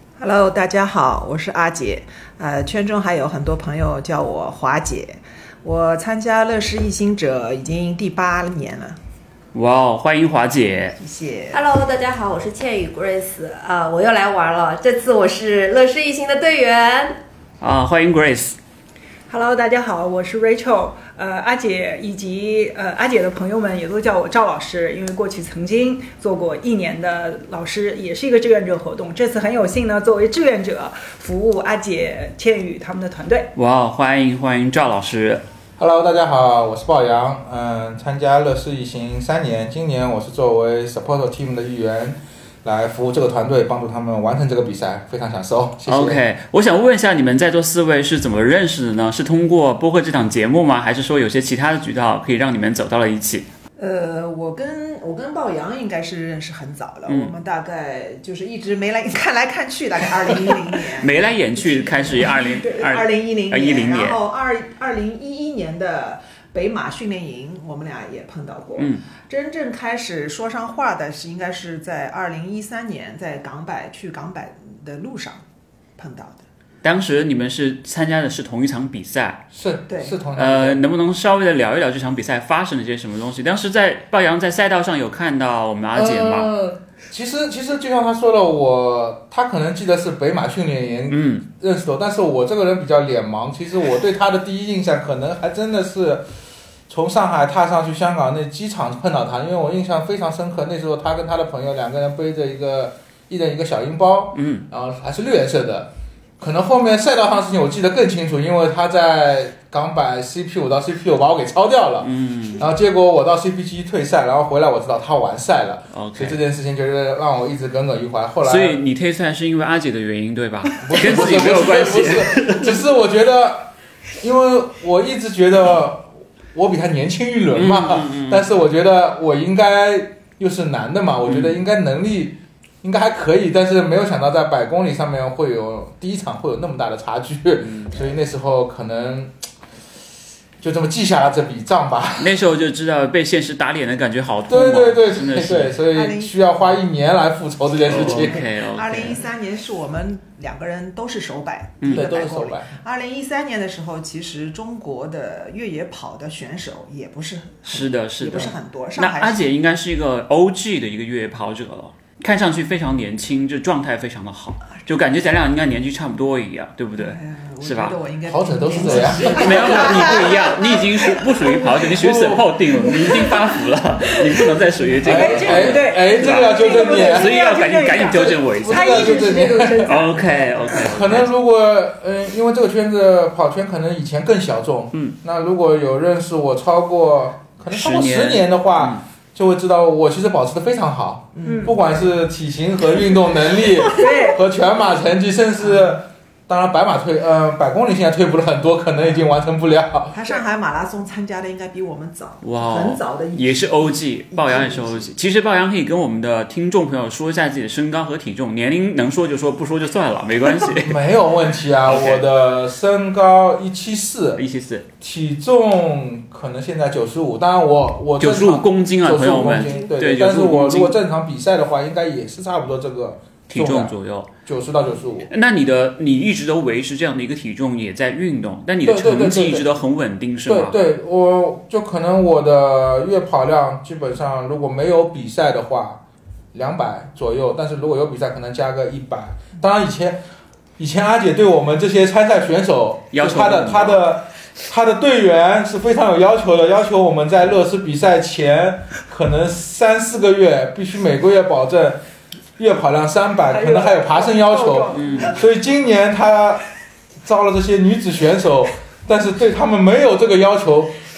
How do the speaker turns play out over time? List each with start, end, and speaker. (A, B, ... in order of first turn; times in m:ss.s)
0:00.2-0:09.0 A
0:09.5-0:11.0 B
0:11.0-0:11.6 A
0:11.5-0:17.2 C
0:17.6-0:18.6 B
0:19.3-0:33.5 D
0:33.6-0:35.4 B
0:35.8-0:46.2 E
0:45.9-0:53.4 B
0:53.8-1:15.4 A
0:57.1-0:57.3 B
1:01.0-1:04.2 B
1:08.8-1:09.0 B
1:16.0-1:16.4 A
1:16.8-1:19.5 B
1:19.5-1:20.8 E
1:19.9-1:20.2 A
1:20.3-1:26.5 B
1:26.4-1:36.2 E
1:31.1-1:31.5 B
1:36.9-1:58.8 E
1:44.3-1:44.7 B
1:52.0-1:52.6 B
1:55.9-1:56.4 B
1:58.4-2:02.8 B
2:00.8-2:19.3 E
2:07.5-2:08.5 B
2:11.2-2:11.6 B
2:17.6-2:18.1 B
2:20.6-2:22.4 E
2:22.2-2:25.8 B
2:24.5-2:28.5 E
2:25.9-2:26.6 A
2:27.9-2:29.2 B
2:27.9-2:39.5 A
2:31.8-2:32.1 B
2:31.9-2:32.8 E
2:37.7-2:48.0 B
2:47.0-2:51.7 A
2:48.3-2:50.1 E
2:49.2-3:01.3 B
2:51.8-2:52.5 E
2:55.0-2:57.4 E
2:55.0-3:00.6 D
2:58.6-3:00.1 E
3:00.6-3:20.1 E
3:07.7-3:09.0 B
3:11.3-3:11.9 A
3:11.5-3:11.8 D
3:13.8-3:14.4 D
3:20.1-3:25.1 A
3:22.4-3:31.0 B
3:30.8-3:34.4 E
3:31.8-3:32.3 B
3:34.4-3:34.9 B
3:35.0-3:45.3 E
3:38.2-3:41.0 B
3:43.5-3:44.3 B
3:45.3-3:50.8 B
3:48.8-3:49.7 E
3:50.5-3:56.0 E
3:56.5-4:00.2 E
4:00.8-4:12.0 E
4:03.1-4:04.0 B
4:12.6-4:16.6 E
4:13.4-4:15.4 D
4:14.9-4:15.3 B
4:17.2-4:20.9 E